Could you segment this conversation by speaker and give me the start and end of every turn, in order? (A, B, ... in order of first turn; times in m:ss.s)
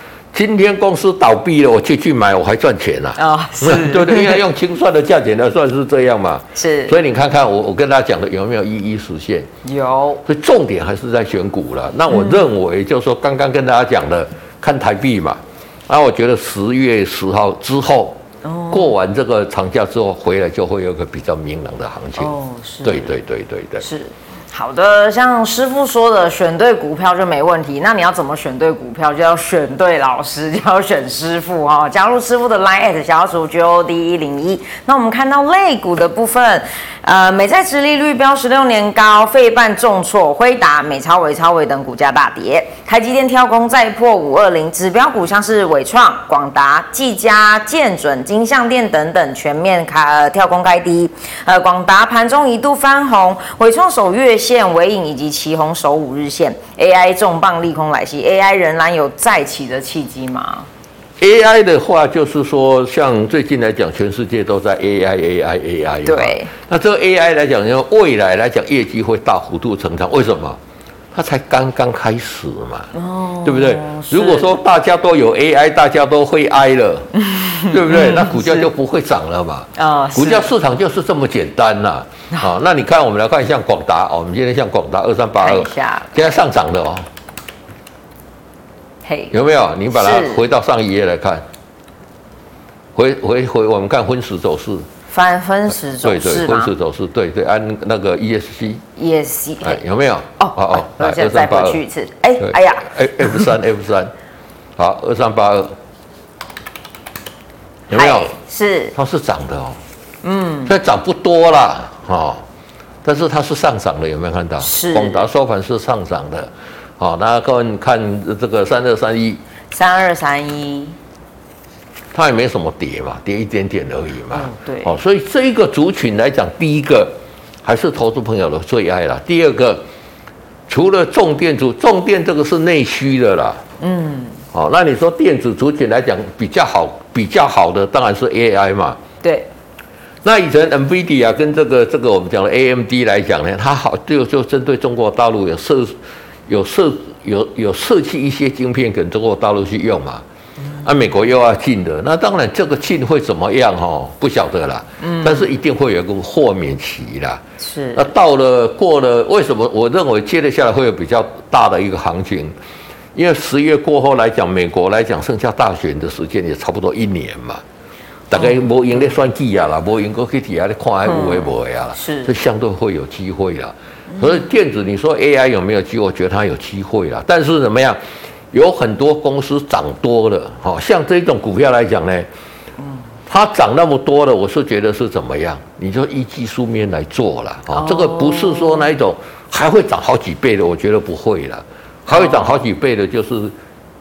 0:00.3-0:09.5 A
0:03.2-0:04.4 B
0:06.6-0:07.0 B
0:09.6-0:10.2 B
0:10.2-0:18.2 A
0:12.1-0:12.5 B
0:18.4-0:18.9 B
0:18.7-0:22.3 A
0:22.2-0:23.1 B
0:22.8-0:23.8 A
0:23.8-1:00.7 B
1:01.2-1:10.6 A
1:06.0-1:06.5 B
1:11.1-1:12.9 A
1:12.9-1:14.5 B
1:13.4-1:17.1 A
1:17.2-1:18.7 B
1:17.7-1:27.1 A
1:19.8-1:20.5 B
1:25.4-1:26.4 B
1:29.0-1:29.3 B
1:29.3-1:31.4 A
1:29.9-1:30.4 B
1:33.0-1:34.9 A
1:35.1-1:36.7 B
1:36.0-1:38.8 A
1:39.0-1:39.8 B
1:39.6-1:41.8 A
1:40.4-1:43.5 B
1:42.4-1:44.1 A
1:44.8-1:45.8 A
1:47.9-1:48.4 A
1:47.9-1:49.0 B
1:49.0-1:49.8 A
1:50.2-1:50.8 B
1:50.7-1:52.4 A
1:53.0-1:59.4 A
1:54.6-1:55.3 B
1:59.7-2:01.0 B
2:02.1-2:09.8 A
2:04.3-2:04.9 B
2:10.7-2:13.6 A
2:13.8-2:14.4 B
2:14.5-2:19.0 A
2:19.2-2:19.5 B
2:20.2-2:30.2 A
2:30.6-2:30.9 B
2:30.8-2:37.4 A
2:35.0-2:35.5 B
2:37.6-2:38.1 B
2:38.0-2:42.5 A
2:43.2-2:47.6 A
2:48.3-2:58.0 A
2:51.1-2:52.4 B
2:54.1-2:54.4 B
2:58.5-3:02.3 A
3:03.3-3:13.6 A
3:07.7-3:08.9 B
3:12.1-3:12.6 B